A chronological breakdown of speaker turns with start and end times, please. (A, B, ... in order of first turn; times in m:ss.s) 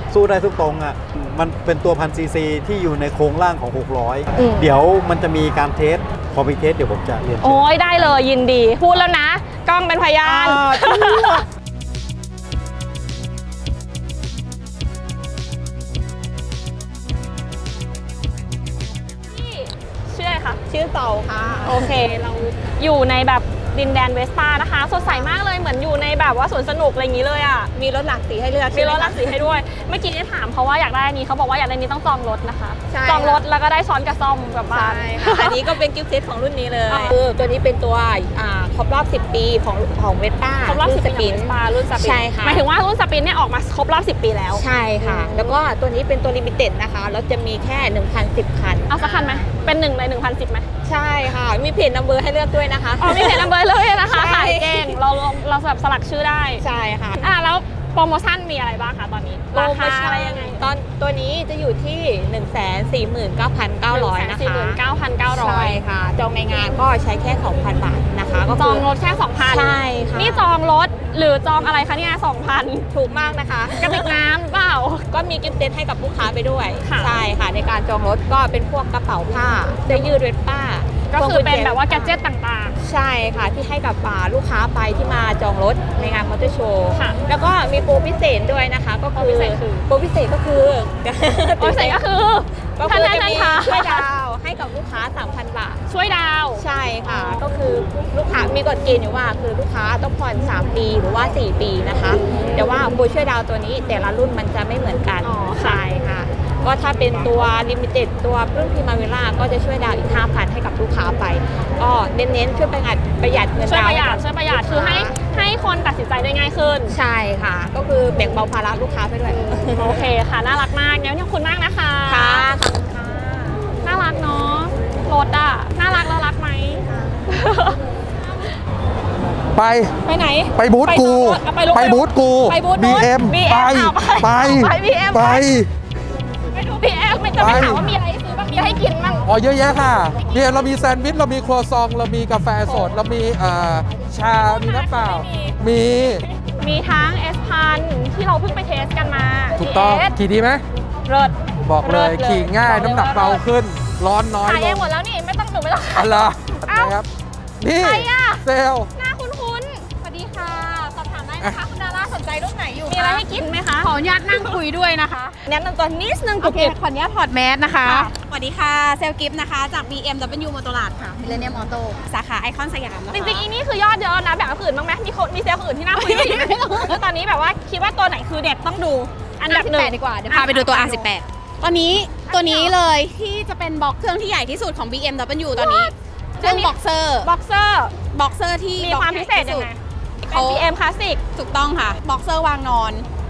0:00.1-0:07.7 A
0:04.4-0:04.7 B
0:07.4-0:11.4 B
0:10.2-0:11.4 A
0:19.3-0:20.6 B
0:20.7-0:21.9 C
0:21.6-0:27.7 B
0:27.7-0:29.4 C
0:28.7-0:35.6 B
0:32.9-0:33.4 C
0:34.7-0:42.6 C
0:36.9-0:37.2 B
0:40.6-0:45.5 B
0:44.5-0:49.5 C
0:48.9-0:50.7 B
0:50.8-0:55.0 C
0:53.0-0:56.6 B
0:56.6-0:57.2 C
0:57.2-1:00.6 B
0:59.5-1:04.8 C
1:03.9-1:05.8 B
1:05.3-1:08.8 C
1:08.6-1:12.9 B
1:09.4-1:10.4 C
1:12.9-1:14.2 C
1:13.8-1:15.0 B
1:15.1-1:22.2 C
1:16.8-1:17.1 B
1:21.1-1:22.8 B
1:22.8-1:32.0 C
1:29.1-1:29.8 B
1:31.6-1:34.0 B
1:32.8-1:35.8 C
1:35.9-1:37.4 B
1:36.6-1:55.1 C
1:42.3-1:42.6 B
1:45.2-1:45.9 B
1:53.7-1:56.9 B
1:56.9-2:00.0 C
1:59.7-2:02.5 B
2:02.1-2:03.6 C
2:03.8-2:07.8 B
2:09.5-2:09.9 D
2:10.0-2:15.5 B
2:10.6-2:15.7 D
2:16.5-2:19.3 B
2:17.4-2:17.9 D
2:19.2-2:26.2 D
2:22.6-2:22.9 B
2:24.3-2:25.6 B
2:26.2-2:30.2 B
2:29.6-2:30.6 D
2:31.0-2:33.4 B
2:31.6-2:34.8 D
2:34.4-2:37.0 B
2:35.9-2:37.1 D
2:37.6-2:38.9 D
2:37.8-2:38.4 B
2:39.0-2:39.8 B
2:40.0-2:43.2 E
2:42.9-2:44.6 B
2:43.8-2:45.4 E
2:45.4-2:46.7 B
2:46.4-2:53.4 E
2:47.8-2:48.1 B
2:51.3-2:51.6 B
2:53.1-3:01.1 B
2:55.9-2:57.0 E
2:59.5-3:07.3 E
3:02.3-3:02.7 B
3:05.5-3:07.9 B
3:08.1-3:09.7 E
3:08.8-3:11.2 B
3:10.3-3:10.6 E
3:11.3-3:13.0 E